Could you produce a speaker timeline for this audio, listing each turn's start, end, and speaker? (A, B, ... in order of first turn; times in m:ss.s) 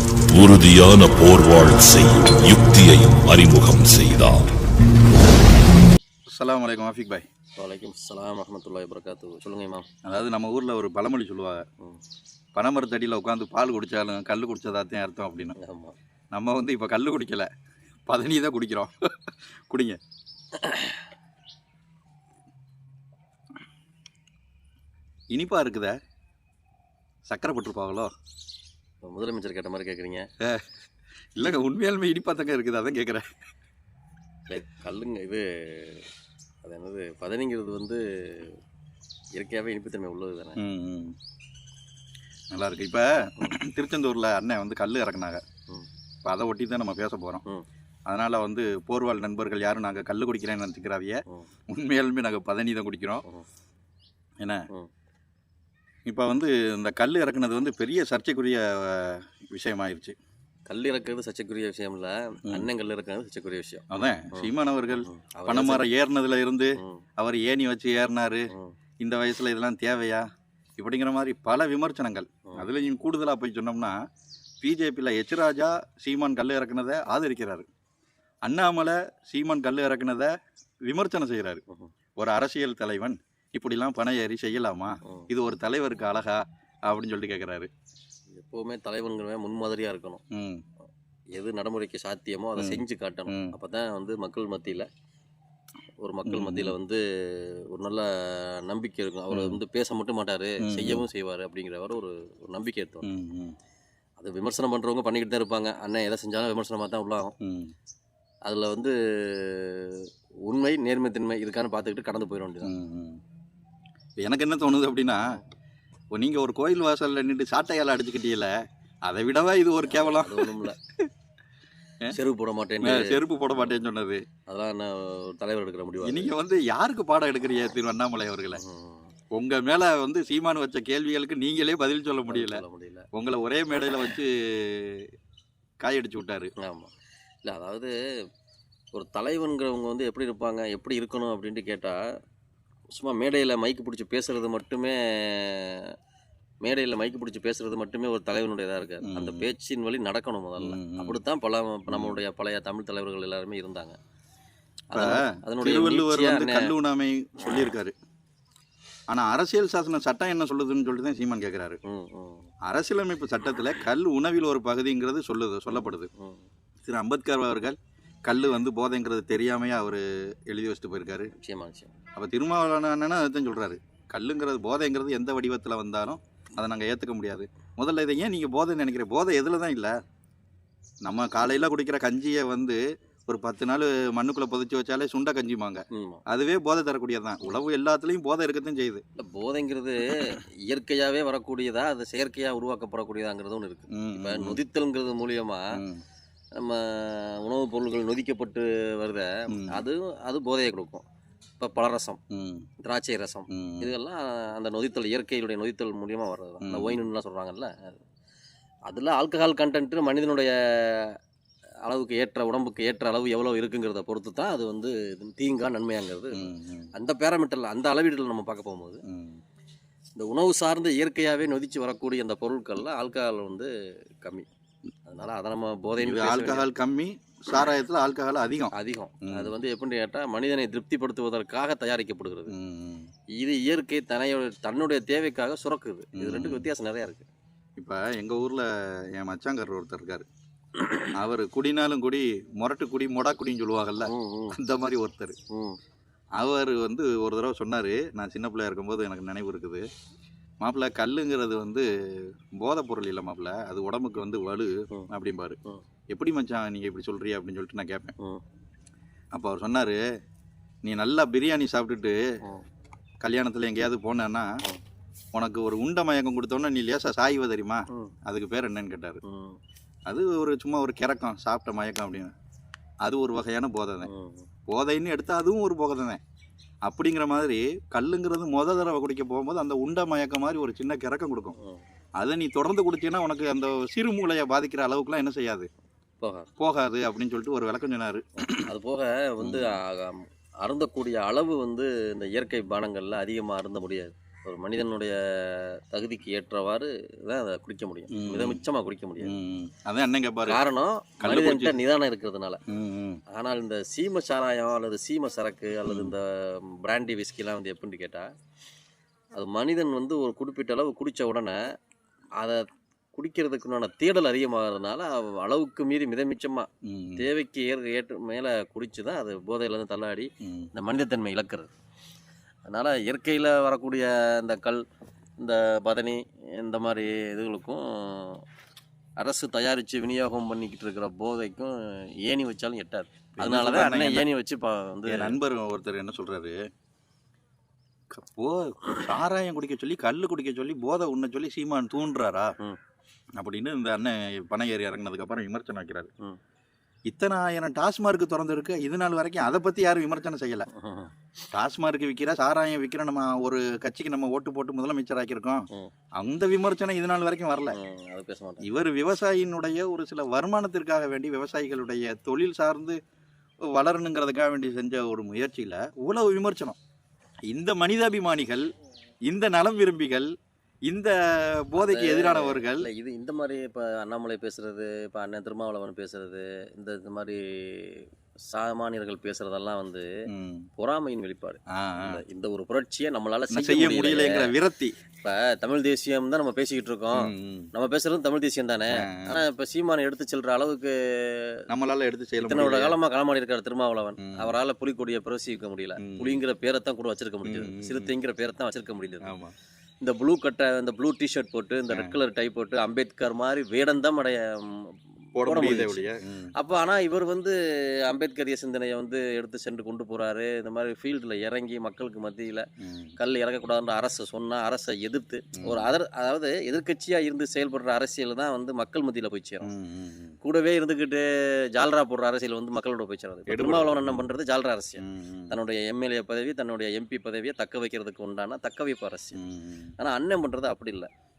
0:00.3-0:04.5 A
0:06.4-0:07.2 B
0:07.5-0:09.9 C
0:10.0-0:11.6 B
0:12.6-0:15.6 B
0:15.6-0:16.0 C
0:16.3-0:17.5 B
0:18.1-0:18.9 B
0:19.7-0:20.0 B
0:20.6-0:21.1 C
0:25.3-0:26.0 B
0:27.3-0:28.1 B
0:29.0-0:30.3 C
0:30.4-0:30.7 B
0:31.4-0:33.3 B
0:34.5-0:36.1 C
0:36.6-0:38.6 C
0:39.4-0:40.6 C
0:40.6-0:41.2 B
0:42.5-0:45.4 B
0:46.2-0:47.4 B
0:48.1-0:53.2 B
0:56.1-1:00.2 B
1:00.7-1:05.9 C
1:03.9-1:10.3 B
1:06.8-1:07.0 C
1:08.5-1:08.8 C
1:10.8-1:14.0 B
1:14.6-1:17.7 B
1:18.4-1:20.3 B
1:20.9-1:21.6 B
1:22.2-1:27.7 B
1:28.3-1:30.2 C
1:30.3-1:30.6 B
1:31.3-1:34.9 C
1:32.6-1:33.6 B
1:36.0-1:43.1 C
1:36.3-1:36.8 B
1:39.3-1:39.6 B
1:40.6-1:41.1 B
1:43.0-1:43.6 B
1:44.2-1:47.4 C
1:47.4-1:47.7 B
1:48.5-1:52.7 C
1:52.6-1:53.2 B
1:54.2-1:55.4 B
1:56.1-1:58.6 B
1:59.1-2:01.1 B
1:59.8-2:00.8 C
2:02.1-2:03.8 C
2:02.8-2:04.2 B
2:04.5-2:06.4 C
2:06.0-2:08.6 B
2:08.6-2:09.1 C
2:09.3-2:15.1 B
2:12.3-2:13.1 C
2:15.8-2:16.5 B
2:16.6-2:16.9 C
2:17.4-2:18.0 C
2:18.9-2:22.0 C
2:22.9-2:25.9 C
2:26.6-2:34.0 C
2:29.0-2:29.5 B
2:30.6-2:31.2 B
2:31.9-2:32.2 B
2:34.9-2:36.7 C
2:34.9-2:38.0 B
2:39.1-2:41.8 B
2:41.8-2:42.5 C
2:42.7-2:46.1 B
2:45.7-2:46.5 C
2:46.9-2:51.3 B
2:51.3-2:51.9 C
2:52.2-3:00.0 B
3:01.0-3:09.0 B
3:05.9-3:06.2 C
3:09.2-3:15.8 C
3:14.0-3:14.6 B
3:15.8-3:16.0 B
3:16.6-3:21.0 C
3:19.5-3:19.8 B
3:21.6-3:22.2 C
3:22.3-3:22.7 B
3:22.8-3:28.0 C
3:23.5-3:23.9 B
3:26.6-3:27.0 B
3:28.9-3:31.2 C
3:31.9-3:39.0 C
3:36.3-3:36.9 B
3:39.1-3:39.4 B
3:40.2-3:44.5 C
3:45.0-3:46.7 C
3:46.0-3:48.7 B
3:48.7-3:52.5 C
3:49.2-3:49.5 B
3:52.5-3:53.1 B
3:53.4-3:57.3 C
3:56.2-3:56.7 B
3:57.8-4:00.3 B
4:01.1-4:05.4 B
4:04.0-4:04.6 C
4:05.5-4:05.8 C
4:06.4-4:09.8 B
4:10.6-4:15.6 B
4:16.1-4:18.2 B
4:19.3-4:20.0 B
4:20.8-4:22.2 B
4:23.2-4:24.5 B
4:25.3-4:29.2 B
4:29.2-4:29.6 C
4:30.1-4:32.3 B
4:33.0-4:34.1 B
4:34.0-4:34.5 C
4:34.7-4:36.2 B
4:36.9-4:41.6 B
4:41.6-4:41.8 C
4:42.2-4:45.7 B
4:46.2-4:46.5 C
4:46.6-4:48.7 B
4:48.6-4:59.4 C
4:49.4-4:49.7 B
4:58.1-4:58.6 B
4:59.2-5:00.6 B
5:00.4-5:02.6 C
5:01.2-5:01.8 B
5:02.7-5:03.2 B
5:03.3-5:08.3 C
5:05.9-5:06.2 B
5:09.3-5:11.6 C
5:12.4-5:21.7 C
5:16.8-5:17.3 B
5:20.4-5:20.7 B
5:22.7-5:24.8 C
5:25.4-5:28.4 C
5:29.2-5:35.4 C
5:33.4-5:34.3 B
5:35.1-5:36.6 B
5:38.1-5:42.5 B
5:43.4-5:46.1 B
5:47.1-5:50.7 B
5:50.7-5:51.1 C
5:51.5-5:55.7 B
5:56.2-5:57.8 B
5:57.7-5:58.7 C
5:58.6-6:03.0 B
6:03.6-6:06.8 B
6:07.5-6:08.7 B
6:09.3-6:10.3 B
6:10.9-6:12.9 B
6:11.8-6:20.1 C
6:20.3-6:20.7 B
6:20.8-6:24.6 C
6:21.7-6:22.2 B
6:23.5-6:25.0 B
6:25.2-6:31.6 C
6:27.2-6:27.7 B
6:29.0-6:29.4 B
6:31.7-6:33.0 B
6:32.4-6:39.4 C
6:34.2-6:34.5 B
6:36.0-6:36.4 B
6:37.4-6:38.1 B
6:39.2-6:39.5 B
6:40.0-6:59.7 C
6:41.9-6:42.2 B
6:45.4-6:46.5 B
6:52.8-6:53.1 B
6:55.6-6:55.9 B
6:59.6-7:00.4 B
7:00.4-7:09.4 C
7:03.5-7:04.3 B
7:05.0-7:05.6 B
7:09.4-7:09.9 B
7:10.0-7:11.1 C